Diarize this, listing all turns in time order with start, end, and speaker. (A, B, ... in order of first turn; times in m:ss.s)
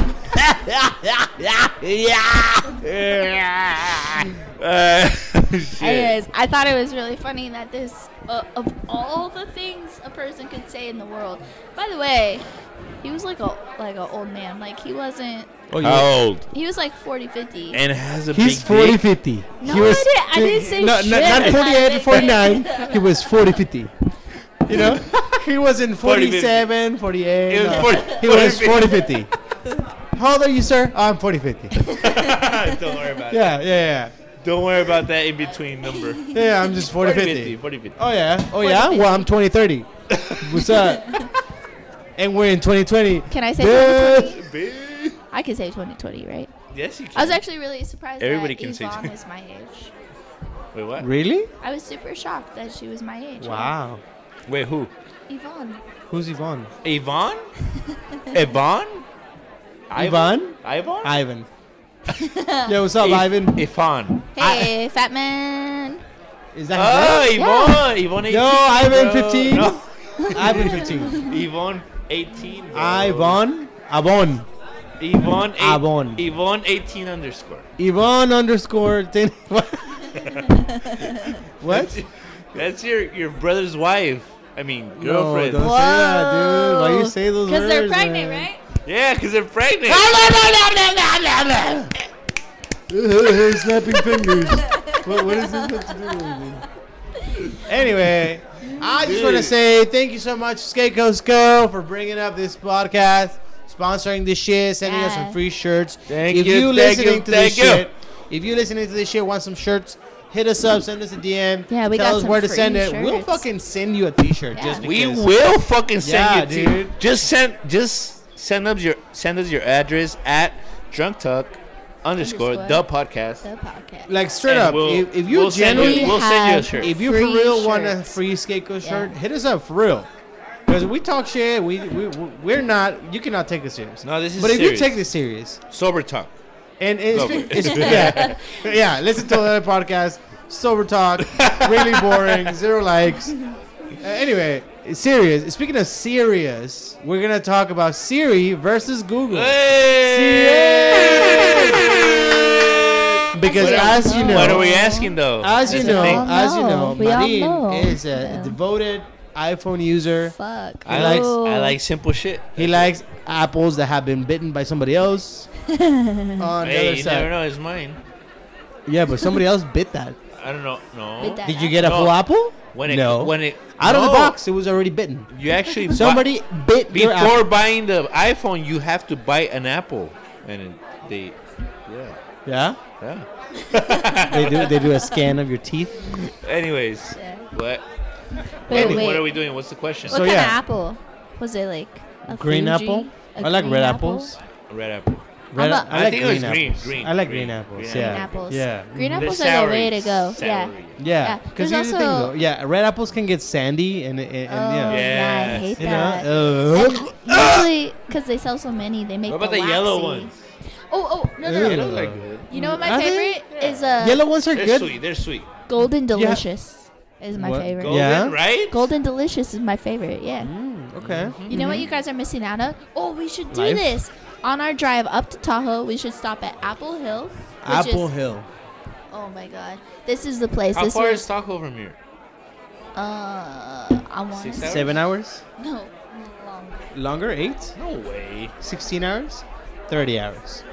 0:00.4-0:06.2 A
0:02.7-0:04.2 B
0:05.8-0:12.4 C
0:13.0-0:15.5 C
0:15.7-0:16.1 B
0:15.8-0:16.5 A
0:16.5-0:17.8 C
0:17.7-0:19.0 A
0:18.3-0:23.9 B
0:19.6-0:23.0 C
0:21.3-0:21.6 A
0:24.6-0:29.3 B
0:24.7-0:25.2 A
0:26.0-0:26.7 A
0:27.5-0:29.2 A
0:30.1-0:31.8 B
0:31.8-0:32.3 C
0:31.9-0:33.6 A
0:33.3-0:34.1 B
0:34.4-0:38.0 A
0:36.1-0:36.3 C
0:36.3-0:41.2 B
0:38.6-0:39.3 C
0:40.1-0:40.9 A
0:42.2-0:44.4 B
0:43.3-0:44.4 C
0:44.2-0:45.2 A
0:45.3-0:46.5 C
0:46.7-0:47.4 A
0:47.1-0:49.9 C
0:48.2-0:49.1 A
0:50.7-0:51.1 A
0:51.0-0:51.5 B
0:51.6-0:53.7 C
0:53.4-0:54.0 B
0:54.5-0:54.9 A
0:55.3-0:55.8 C
0:56.1-0:56.7 B
0:56.8-0:57.5 A
0:58.3-0:59.0 A
0:59.9-1:01.2 A
1:00.0-1:01.5 B
1:02.1-1:02.7 C
1:02.6-1:03.6 B
1:03.0-1:04.2 A
1:04.3-1:06.0 C
1:04.4-1:04.7 B
1:06.5-1:07.3 B
1:06.7-1:13.4 A
1:07.4-1:07.8 C
1:08.3-1:09.8 B
1:10.2-1:11.3 C
1:10.3-1:11.2 B
1:12.7-1:14.5 B
1:15.0-1:17.7 A
1:15.6-1:16.2 B
1:17.8-1:20.2 B
1:20.2-1:20.5 A
1:20.2-1:21.4 C
1:21.6-1:22.0 B
1:21.6-1:25.7 A
1:25.0-1:28.5 B
1:25.6-1:28.6 C
1:28.8-1:30.1 A
1:29.9-1:31.9 B
1:32.9-1:36.6 B
1:34.2-1:36.4 C
1:37.3-1:37.6 C
1:37.6-1:55.3 B
1:39.0-1:39.5 A
1:44.8-1:45.4 C
1:46.1-1:47.9 A
1:51.7-1:53.4 C
1:54.5-1:54.8 C
1:54.8-2:03.4 A
1:56.0-1:56.9 B
2:02.2-2:02.8 C
2:03.4-2:04.1 C
2:04.1-2:06.2 B
2:04.4-2:06.9 A
2:05.7-2:08.2 C
2:06.8-2:10.1 B
2:08.8-2:09.1 C
2:10.7-2:15.6 B
2:14.0-2:15.0 A
2:15.7-2:16.3 A
2:16.8-2:23.4 B
2:17.1-2:18.4 A
2:17.3-2:18.4 C
2:21.2-2:22.5 A
2:24.0-2:31.9 B
2:29.3-2:36.2 A
2:33.3-2:34.6 B
2:33.4-2:38.6 C
2:35.4-2:40.3 B
2:40.3-2:41.8 C
2:40.8-2:43.0 A
2:40.8-2:41.3 B
2:42.6-2:45.5 B
2:45.7-2:46.5 C
2:46.4-2:47.3 B
2:46.6-2:48.0 A
2:48.8-2:50.2 B
2:50.4-2:54.4 A
2:51.2-2:51.8 C
2:51.4-2:55.3 B
2:55.3-2:56.3 A
2:55.9-2:57.4 B
2:56.9-3:01.4 A
3:01.9-3:02.2 A
3:02.4-3:02.8 B
3:03.0-3:04.8 A
3:03.7-3:04.4 C
3:04.3-3:06.1 B
3:06.2-3:07.8 A
3:07.1-3:07.5 C
3:08.6-3:09.4 C
3:08.7-3:10.3 A
3:08.7-3:09.1 B
3:10.1-3:10.6 B
3:10.1-3:14.4 C
3:12.2-3:14.4 B
3:14.7-3:15.3 A
3:15.5-3:19.4 B
3:15.6-3:15.9 C
3:15.9-3:18.4 A
3:17.9-3:22.3 C
3:19.1-3:21.0 A
3:21.0-3:25.1 B
3:24.5-3:30.3 C
3:24.9-3:27.7 A
3:25.8-3:27.1 B
3:29.3-3:30.4 A
3:30.9-3:31.9 C
3:31.4-3:33.4 B
3:31.5-3:32.5 A
3:32.5-3:34.2 C
3:33.5-3:33.9 A
3:34.0-3:34.9 B
3:34.5-3:35.4 A
3:35.7-3:40.5 C
3:36.1-3:36.4 B
3:37.3-3:38.4 B
3:37.8-3:38.9 A
3:40.4-3:41.8 B
3:41.0-3:42.0 A
3:41.5-3:48.1 C
3:43.5-3:43.9 B
3:47.6-3:48.5 B
3:49.1-3:51.2 C
3:50.7-3:52.0 A
3:52.9-3:55.0 C
3:54.3-3:55.0 A
3:54.6-3:55.4 B
3:55.6-3:56.9 C
3:56.9-3:57.7 B
3:57.8-3:58.5 A
3:58.6-4:00.6 B